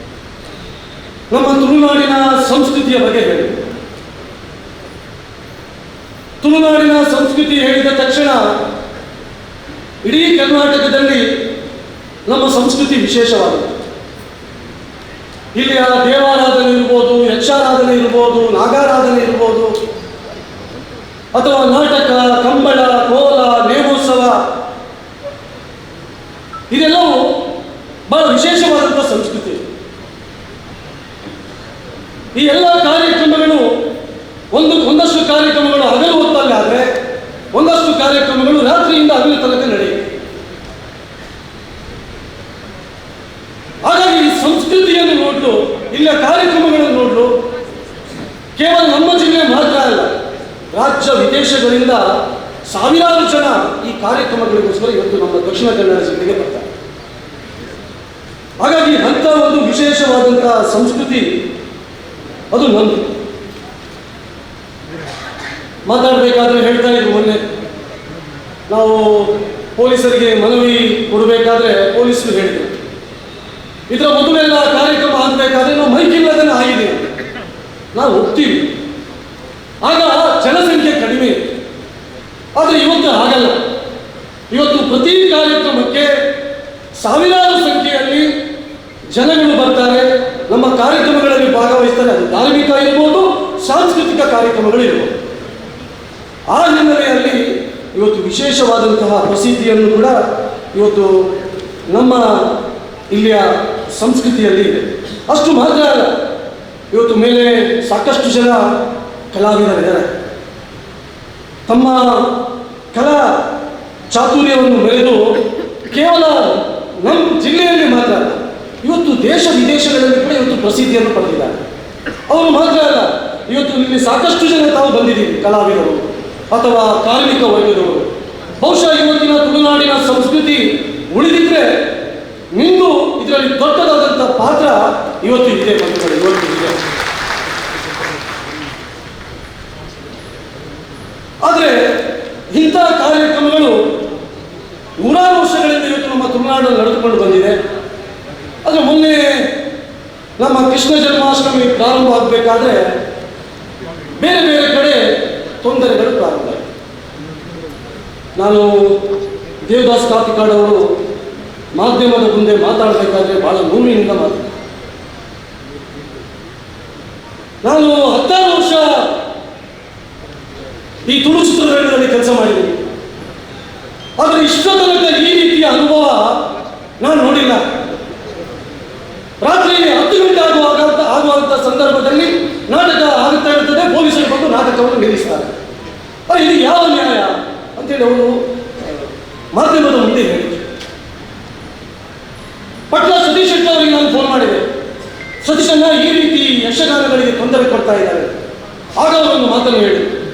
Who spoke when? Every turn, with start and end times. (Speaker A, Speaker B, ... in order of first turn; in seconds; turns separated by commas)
Speaker A: 1.3-3.6, Speaker A: 6.4-8.5, Speaker A: 10.0-11.4, Speaker A: 12.3-13.8, Speaker A: 15.5-19.8, Speaker A: 21.3-24.4, Speaker A: 26.7-27.5, Speaker A: 28.1-29.6, Speaker A: 32.3-33.8, Speaker A: 34.5-37.0, Speaker A: 37.5-40.1, Speaker A: 43.8-47.3, Speaker A: 48.5-50.1, Speaker A: 50.7-56.7, Speaker A: 58.6-61.4, Speaker A: 62.5-63.1, Speaker A: 65.8-67.4, Speaker A: 68.7-72.8, Speaker A: 73.9-77.1, Speaker A: 77.9-78.7, Speaker A: 79.8-81.4, Speaker A: 82.5-83.6, Speaker A: 84.5-86.2, Speaker A: 87.0-88.3, Speaker A: 89.1-95.1, Speaker A: 96.5-100.2, Speaker A: 100.7-101.3, Speaker A: 101.9-102.6, Speaker A: 103.1-106.2, Speaker A: 106.9-108.8, Speaker A: 109.3-110.1, Speaker A: 111.7-112.4, Speaker A: 112.9-113.5, Speaker A: 114.1-121.6, Speaker A: 122.3-131.9, Speaker A: 132.5-136.8, Speaker A: 141.4-143.9, Speaker A: 145.0-147.6, Speaker A: 148.6-149.6, Speaker A: 150.4-152.9, Speaker A: 154.2-156.6, Speaker A: 158.4-159.1, Speaker A: 159.6-161.0, Speaker A: 161.7-164.5, Speaker A: 167.6-169.1, Speaker A: 171.1-172.8, Speaker A: 174.2-176.4, Speaker A: 177.0-177.7, Speaker A: 179.4-185.5, Speaker A: 186.3-188.9, Speaker A: 189.5-190.7, Speaker A: 192.9-194.7, Speaker A: 195.4-198.3, Speaker A: 198.9-200.2